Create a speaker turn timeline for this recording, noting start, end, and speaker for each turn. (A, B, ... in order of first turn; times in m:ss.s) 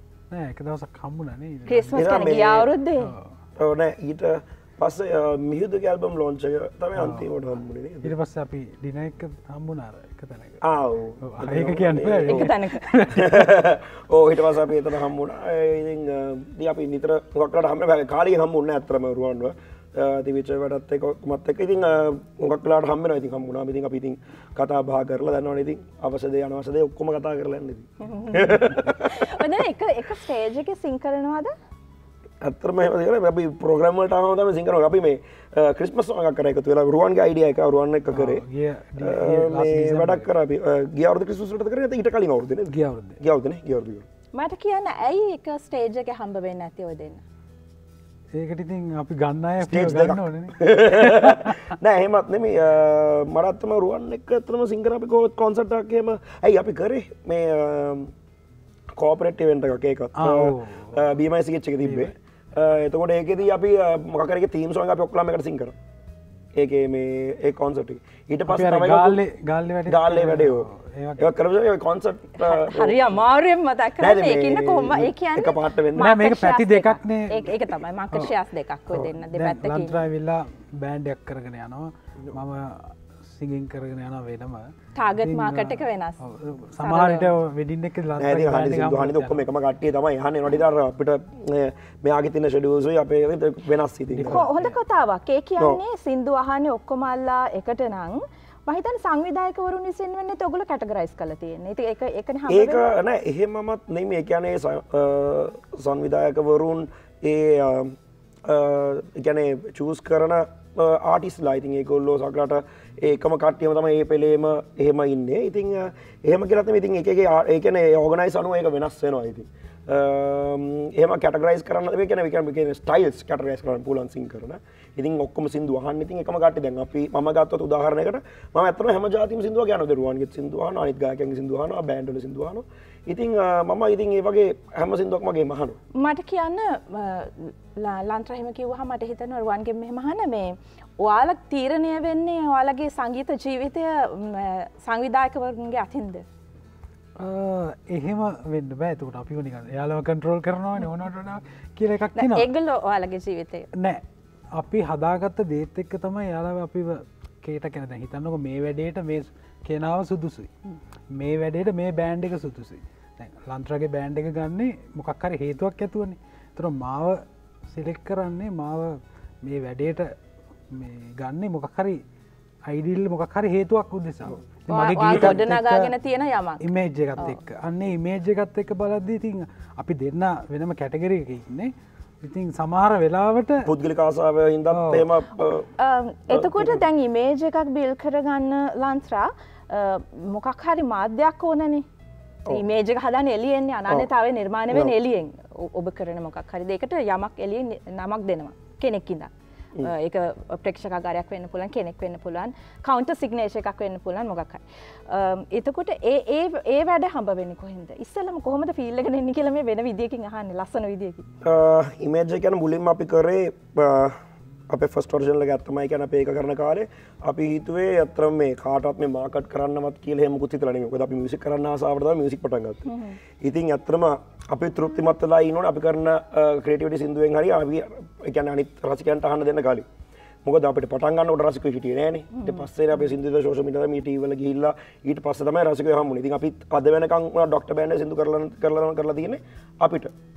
0:00.3-0:02.2 A
0:01.7-0:03.1 B
0:01.9-0:02.7 C
0:03.0-0:03.3 A
0:03.6-0:08.1 C
0:06.9-0:07.3 A
0:08.0-0:10.6 A
0:10.6-0:12.5 C
0:11.2-0:13.5 A
0:12.3-0:13.0 B
0:13.1-0:29.3 C
0:28.0-0:31.5 B
0:32.4-0:38.4 C
0:38.1-0:40.3 A
0:39.0-0:44.0 C
0:42.7-0:43.2 A
0:44.3-0:47.2 B
0:48.3-0:51.7 A
0:49.6-0:58.1 C
0:58.9-1:05.8 C
1:00.2-1:01.2 A
1:01.8-1:02.1 A
1:06.5-1:09.2 C
1:08.5-1:11.3 A
1:09.9-1:10.7 C
1:11.2-1:13.2 C
1:12.4-1:20.0 B
1:14.0-1:16.1 C
1:16.0-1:17.6 A
1:19.2-1:24.7 A
1:24.9-1:26.2 B
1:25.2-1:29.4 A
1:26.8-1:27.3 B
1:28.2-1:34.5 C
1:34.1-1:34.8 A
1:34.3-1:42.9 B
1:42.5-2:15.8 C
2:15.9-2:26.2 B
2:27.2-2:32.5 A
2:32.1-2:33.7 B
2:33.8-2:34.0 A
2:34.5-2:40.5 A
2:41.1-2:50.1 A
2:50.7-2:52.0 A
2:52.7-2:55.9 A
2:54.7-2:56.7 B
2:56.6-3:03.7 A
3:03.6-3:05.7 C
3:04.7-3:05.1 A
3:05.8-3:11.8 B
3:06.3-3:06.8 C
3:12.5-3:19.3 B
3:19.8-3:31.3 B
3:31.4-3:42.9 C
3:42.9-3:43.2 B
3:43.4-3:49.8 C
3:50.4-4:00.1 C
3:52.3-3:52.7 B